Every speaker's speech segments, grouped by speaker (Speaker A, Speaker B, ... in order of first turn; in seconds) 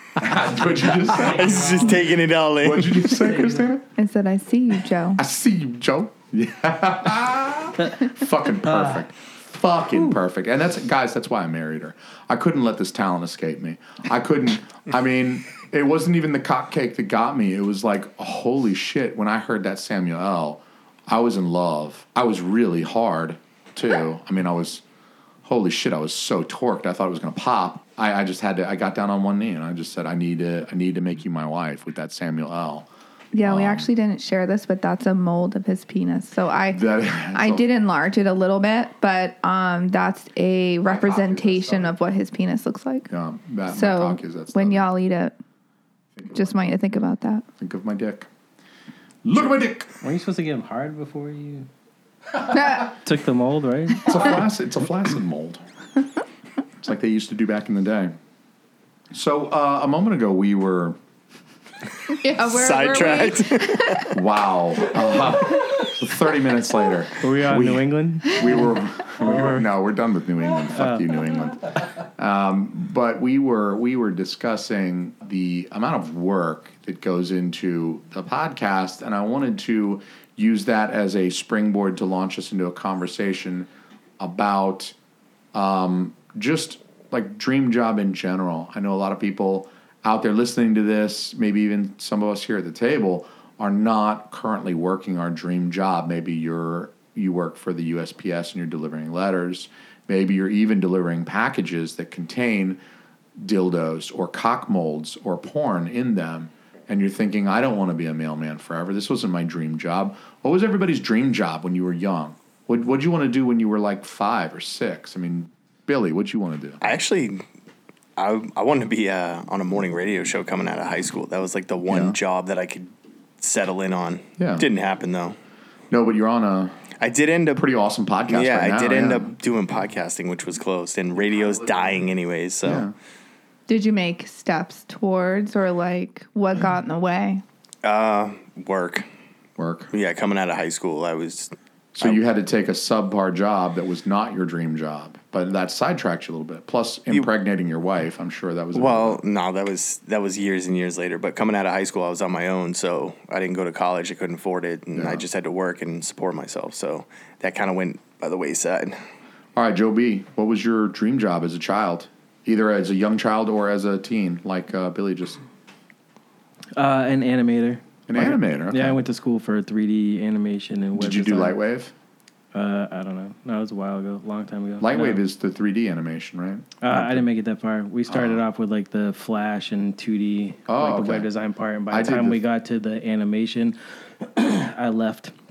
Speaker A: 0.2-3.9, 5.2-24.8, 25.4-33.9, 36.7-37.7, 40.9-42.0, 43.1-44.9, 46.2-46.6, 47.6-48.3, 49.2-49.9, 54.0-55.6, 56.8-58.1, 59.1-61.0, 64.1-85.0, 85.5-102.8, 103.4-116.8, 121.9-122.2, 124.4-124.7, 125.9-126.8, 127.5-129.3, 132.6-132.9, 139.6-139.9, 141.9-149.2, 154.9-155.3, 159.6-165.4, 168.1-169.0, 170.9-171.9, 174.8-177.3, 178.1-178.4, 180.7-181.3, 181.9-182.4
Speaker B: 1.2-1.9, 3.2-3.6, 50.0-51.7, 52.7-54.1, 67.2-69.7, 70.7-71.1, 166.8-171.6, 172.5-175.2, 176.8-185.3
Speaker C: 1.2-3.3, 62.4-64.1, 116.8-117.4, 118.2-125.4, 127.0-127.7, 128.3-132.9, 137.8-139.1, 139.9-142.2, 148.7-159.0
Speaker D: 4.0-5.2, 33.3-43.1, 43.7-45.4, 46.3-47.5, 52.5-52.9, 62.1-64.1, 133.7-137.4